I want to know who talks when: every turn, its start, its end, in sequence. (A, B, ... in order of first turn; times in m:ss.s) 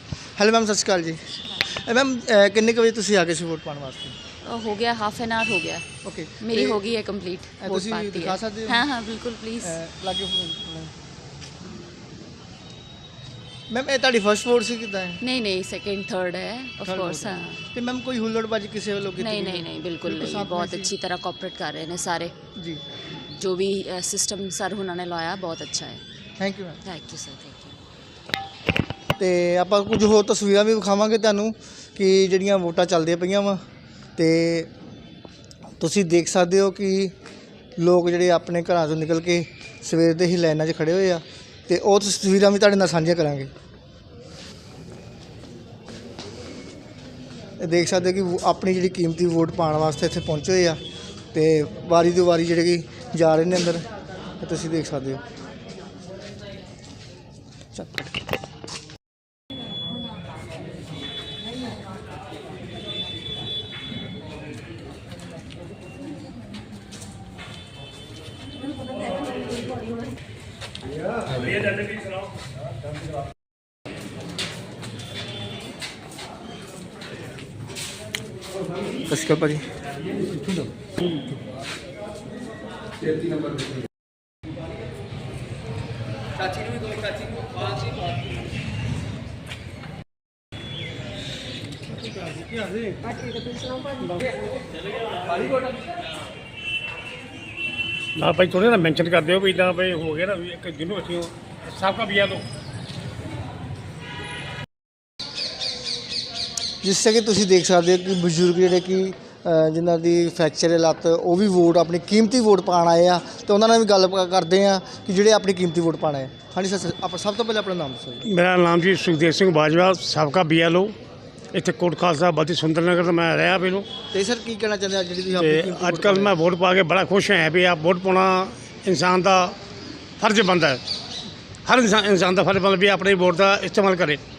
0:00.4-0:04.2 A
0:04.4-0:05.8 B
0:06.0-0:06.8 A
0:06.4-0:09.8 B
0:07.6-0:08.8 A
0:09.6-0:10.9 A
0:13.7-0:15.2 A
0:15.2-0:17.6 B
0:16.8-0:20.9 A
0:19.2-0:22.4 B
0:22.6-0:22.8 A
0:23.3-0:26.0 B
0:26.4-0:26.8 A
0:26.8-0:27.8 B
0:29.2-0:33.6 A
0:34.2-0:34.7 A
0:35.8-0:37.1 A
0:37.8-0:43.5 A
0:47.6-0:50.8 A
0:51.3-0:53.9 A
0:54.4-0:55.2 A
0:57.7-0:58.1 A
1:19.1-1:19.7 A
1:34.0-1:34.3 C
1:38.2-1:42.4 C
1:46.8-1:58.2 A
1:58.2-2:00.9 C
2:01.5-2:03.9 C
2:04.1-2:06.4 A
2:05.4-2:09.6 C
2:10.2-2:10.8 C
2:11.7-2:14.2 C